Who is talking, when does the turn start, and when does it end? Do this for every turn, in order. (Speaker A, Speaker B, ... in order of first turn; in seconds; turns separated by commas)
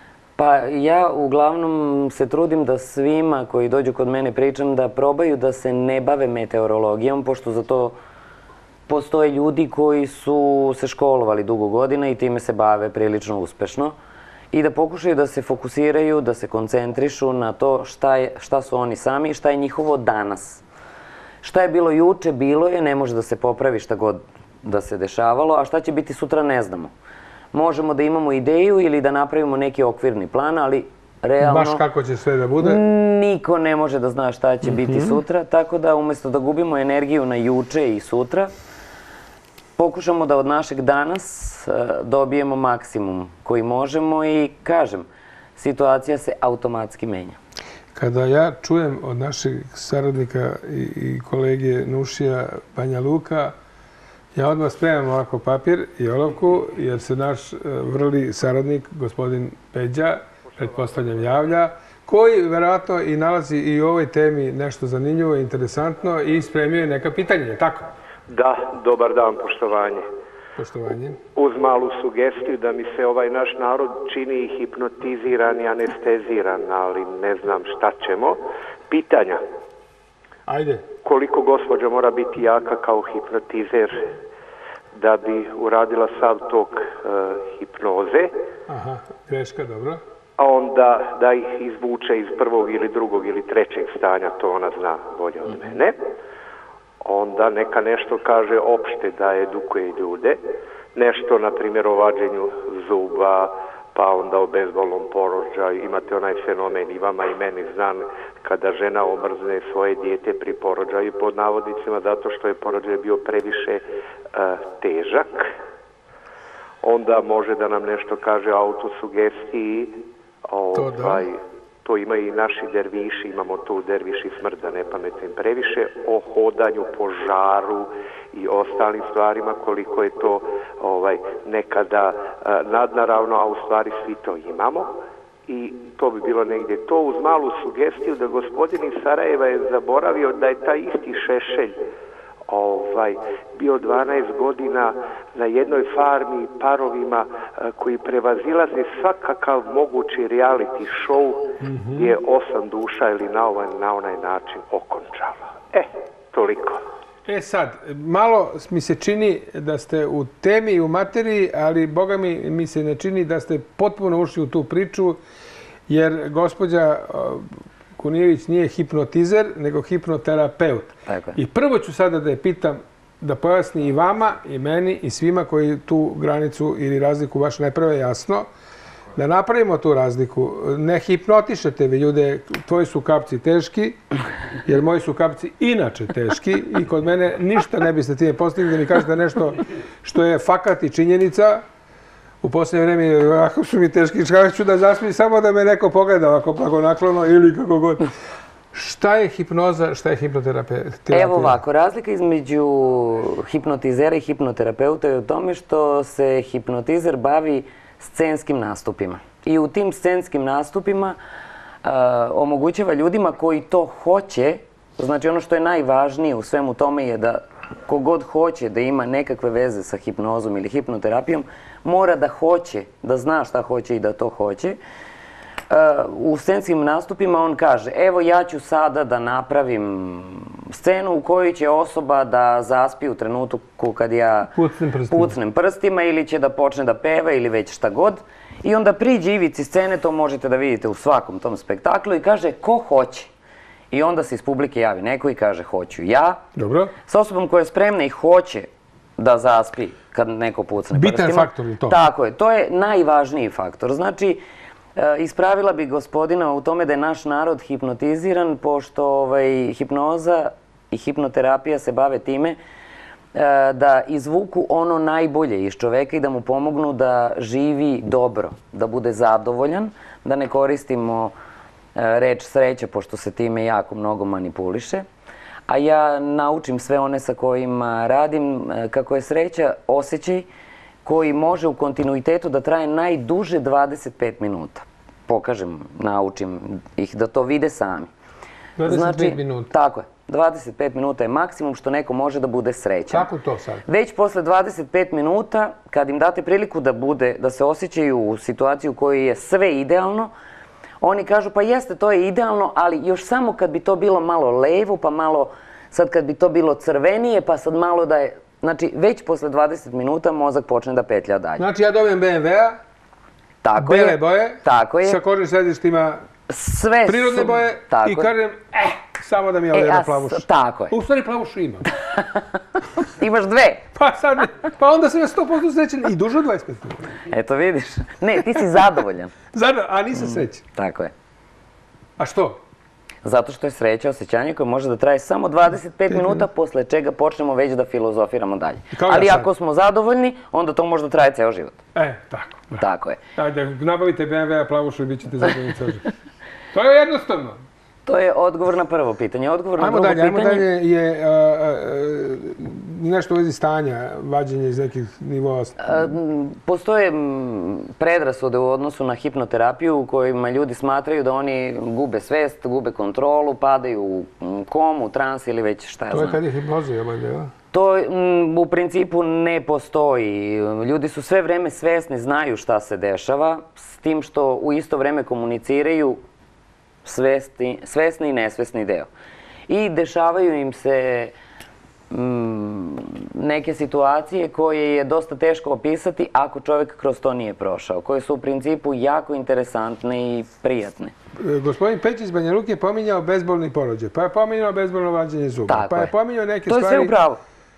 Speaker A: 0.4-8.0, Speaker A: 8.9-13.9, Speaker A: 14.5-20.6, Speaker A: 21.4-26.9, Speaker A: 27.5-31.8, Speaker B: 31.4-32.8, Speaker A: 32.6-38.5, Speaker B: 34.6-35.2, Speaker A: 39.8-47.4, Speaker B: 47.9-53.5, Speaker B: 54.3-67.9, Speaker C: 68.3-70.0, Speaker B: 70.5-71.2, Speaker C: 71.3-79.4, Speaker B: 80.5-80.8, Speaker C: 81.0-84.1, Speaker C: 84.9-88.3, Speaker B: 88.7-90.0, Speaker C: 90.4-95.9, Speaker C: 97.0-100.4, Speaker C: 100.9-115.5, Speaker C: 116.8-120.0, Speaker C: 120.5-134.9, Speaker B: 120.7-121.2, Speaker C: 135.5-141.8, Speaker C: 142.5-156.8, Speaker B: 151.6-152.1, Speaker B: 157.2-165.2, Speaker B: 165.9-178.5, Speaker A: 171.1-171.4, Speaker B: 179.2-184.0, Speaker B: 184.7-191.6, Speaker B: 192.4-198.1, Speaker B: 198.7-201.6, Speaker A: 201.1-211.2, Speaker A: 211.8-224.8, Speaker A: 225.7-234.5, Speaker B: 234.5-235.3, Speaker A: 235.1-243.3, Speaker A: 243.9-246.4, Speaker B: 246.6-246.9, Speaker A: 247.1-254.4, Speaker B: 250.9-252.0, Speaker A: 254.9-262.6, Speaker A: 263.3-271.3, Speaker A: 271.9-275.1, Speaker A: 275.7-280.5, Speaker A: 281.0-288.1, Speaker B: 288.8-289.7, Speaker A: 288.8-293.3, Speaker B: 293.1-293.8, Speaker A: 293.9-300.3, Speaker A: 301.0-311.6, Speaker B: 311.6-312.8, Speaker A: 313.6-315.2, Speaker B: 313.8-316.2, Speaker A: 316.5-318.3, Speaker B: 317.1-321.9, Speaker A: 319.7-320.9, Speaker A: 322.1-322.4, Speaker A: 323.0-323.9, Speaker B: 323.9-327.1, Speaker A: 327.3-329.3, Speaker B: 329.5-330.6, Speaker A: 330.1-331.1, Speaker B: 332.2-332.6, Speaker A: 333.2-341.8, Speaker B: 336.1-336.4, Speaker B: 338.9-339.5, Speaker B: 341.9-346.1, Speaker A: 342.8-343.2, Speaker B: 346.7-347.6, Speaker A: 348.1-350.7, Speaker B: 349.8-355.8, Speaker A: 355.8-366.4, Speaker B: 366.1-367.5, Speaker A: 367.7-376.2, Speaker A: 377.0-379.1, Speaker A: 379.7-381.3, Speaker A: 382.1-391.1, Speaker B: 391.4-397.1, Speaker A: 395.7-396.1, Speaker A: 396.7-397.4